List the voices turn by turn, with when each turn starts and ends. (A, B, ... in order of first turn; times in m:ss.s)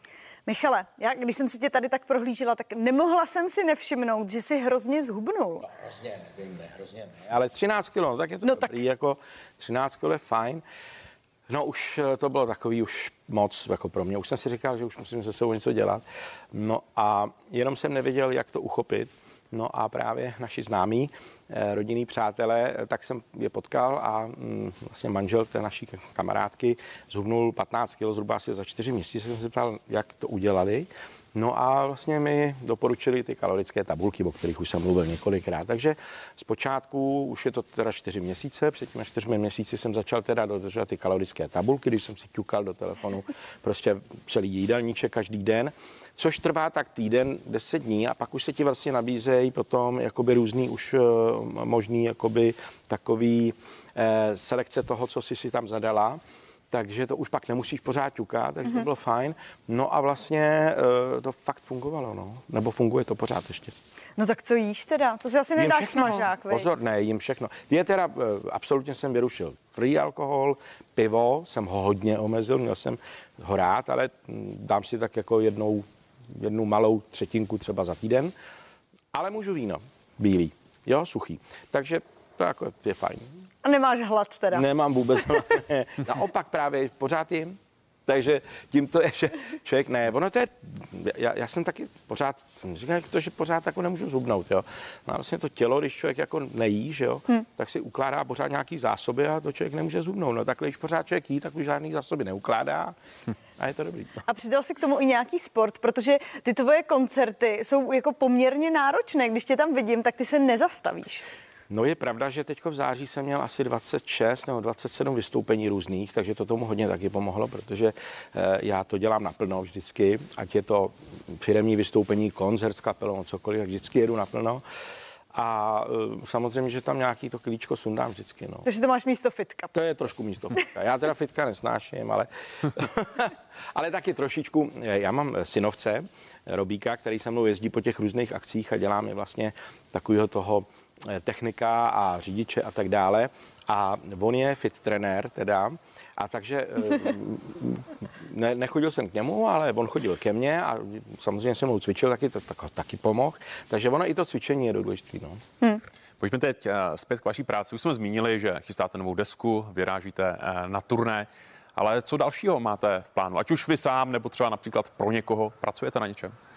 0:00.4-0:05.6 A
0:06.8-0:10.6 B
0:08.4-0:08.8 A
0:11.5-1:03.7 B
1:04.2-1:06.7 A
1:05.6-1:18.3 B
1:19.1-1:23.3 B
1:23.6-1:24.7 A
1:24.5-1:42.9 B
1:43.6-1:44.2 B
1:44.3-1:51.2 A
1:51.7-2:04.6 B
2:05.3-2:08.7 B
2:08.6-2:09.9 A
2:09.7-2:35.4 B
2:36.2-2:46.3 C